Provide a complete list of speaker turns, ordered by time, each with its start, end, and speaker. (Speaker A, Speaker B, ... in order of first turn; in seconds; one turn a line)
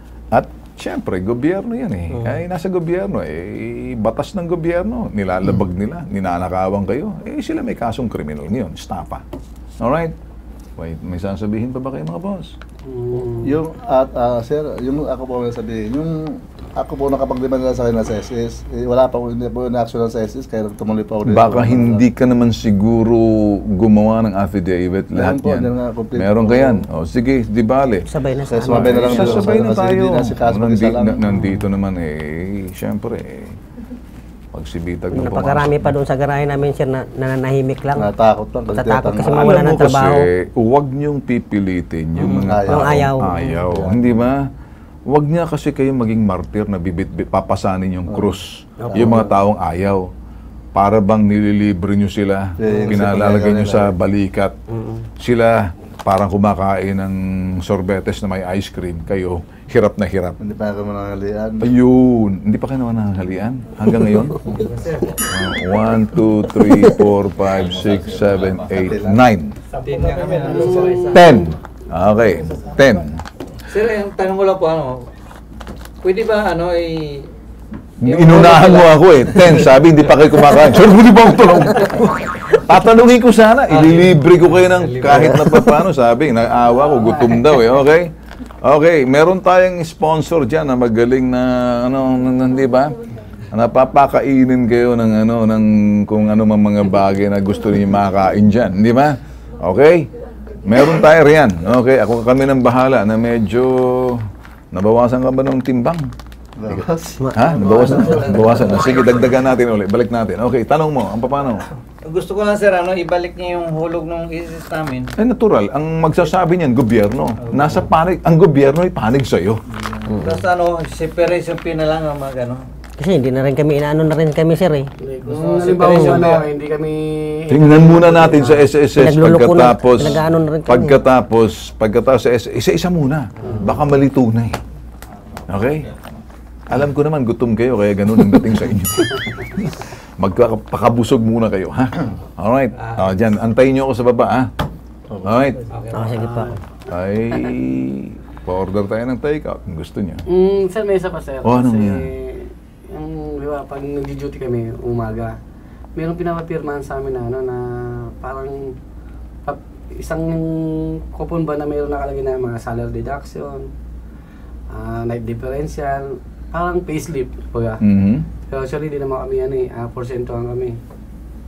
Speaker A: 0.3-9.2
Speaker A: 9.8-10.1
Speaker A: 10.8-12.5
Speaker B: 12.8-13.5
Speaker C: 13.4-22.1
Speaker A: 21.2-28.1
Speaker C: 25.1-26.9
Speaker D: 28.1-29.5
Speaker C: 28.5-31.4
Speaker A: 28.6-33.5
Speaker A: 34.5-36.0
Speaker D: 35.1-38.0
Speaker C: 37.9-39.7
Speaker D: 38.7-40.3
Speaker A: 39.3-44.4
Speaker D: 42.2-43.3
Speaker C: 42.3-43.0
Speaker C: 43.5-44.2
Speaker A: 45.1-50.1
Speaker C: 48.1-48.3
Speaker D: 48.8-49.2
Speaker C: 48.9-49.3
Speaker A: 50.7-54.5
Speaker C: 52.6-53.9
Speaker A: 55.2-60.4
Speaker C: 60.4-61.7
Speaker A: 61.6-64.5
Speaker E: 64.4-65.2
Speaker A: 65.3-69.5
Speaker C: 67.5-69.2
Speaker E: 69.8-71.4
Speaker B: 69.9-71.2
Speaker A: 71.1-73.2
Speaker E: 73.7-75.1
Speaker E: 76.0-77.3
Speaker A: 78.0-88.1
Speaker E: 78.0-79.9
Speaker E: 83.7-85.6
Speaker A: 88.6-92.9
Speaker A: 93.5-100.1
Speaker A: 100.6-106.1
Speaker C: 106.6-107.3
Speaker A: 107.3-111.6
Speaker E: 107.5-109.2
Speaker E: 112.0-115.1
Speaker A: 115.2-119.6
Speaker E: 117.4-117.9
Speaker E: 120.1-122.7
Speaker D: 123.0-124.9
Speaker B: 125.0-128.7
Speaker E: 125.2-126.5
Speaker A: 127.5-134.6
Speaker D: 129.0-131.0
Speaker A: 135.5-135.9
Speaker A: 136.7-144.5
Speaker E: 142.8-143.1
Speaker C: 145.1-145.4
Speaker A: 145.2-145.6
Speaker E: 145.6-146.2
Speaker D: 145.9-146.5
Speaker B: 146.2-146.6
Speaker A: 146.9-150.2
Speaker B: 150.3-155.4
Speaker A: 151.4-152.1
Speaker B: 155.9-158.8
Speaker B: 159.4-163.7
Speaker B: 164.7-167.8
Speaker A: 167.8-168.3
Speaker B: 168.5-170.8